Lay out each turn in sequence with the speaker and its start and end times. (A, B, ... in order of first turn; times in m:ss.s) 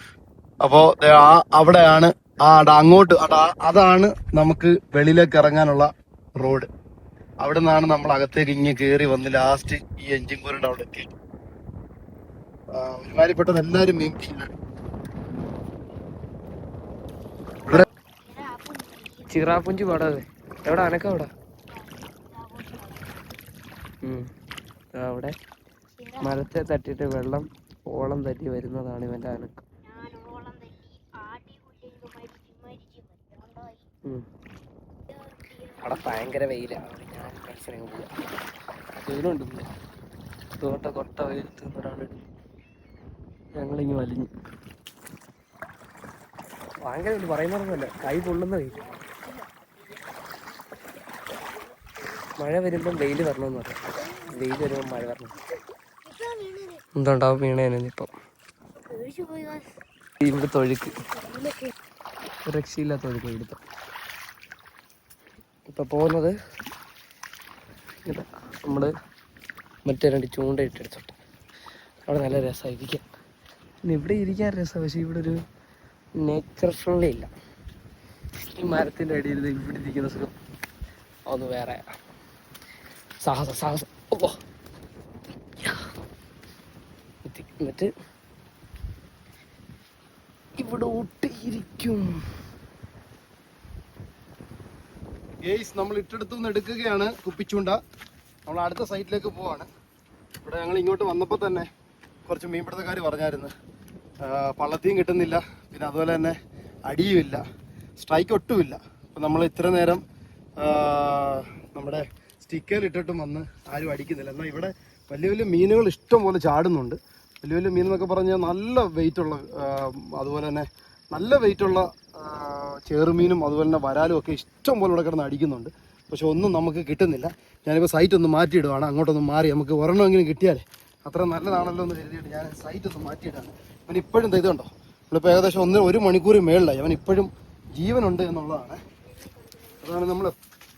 0:00.6-0:06.7 A
0:07.4-0:11.1 A
0:12.7-0:14.5 A
0:17.6-0:20.0 B
0:19.3-0:21.3 C
0:21.7-0:23.6 B
0:24.0-0:24.3 C
0:25.0-0:25.4 C
0:26.0-0:26.4 B
0:26.2-0:29.6 C
0:29.8-0:33.9 B
0:35.1-0:36.3 B
0:35.8-0:38.1 C
0:39.0-0:39.7 C
0:40.6-0:42.2 C
0:43.6-0:44.3 C
0:46.8-0:48.8 C
0:48.7-0:52.3 B
0:52.4-0:55.3 C
0:54.0-0:56.8 B
0:57.0-0:58.1 C
0:58.7-0:59.7 B
1:00.2-1:01.0 C
1:00.3-1:01.7 B
1:02.4-1:03.6 C
1:05.7-1:06.3 C
1:08.0-1:08.9 C
1:09.9-1:11.2 C
1:12.1-1:13.0 C
1:13.9-1:15.4 C
1:16.2-1:17.3 C
1:18.6-1:20.3 C
1:21.3-1:21.9 C
1:23.2-1:24.4 C
1:25.6-1:25.9 C
1:27.2-1:27.9 C
1:30.6-1:32.2 C
1:35.4-1:37.8 A
1:38.5-1:39.7 A
1:40.4-1:41.7 A
1:42.3-1:43.5 A
1:44.2-1:46.4 A
1:46.9-1:47.4 A
1:48.0-1:50.0 A
1:50.6-2:18.8 A
2:19.2-2:19.8 B
2:19.8-2:20.4 A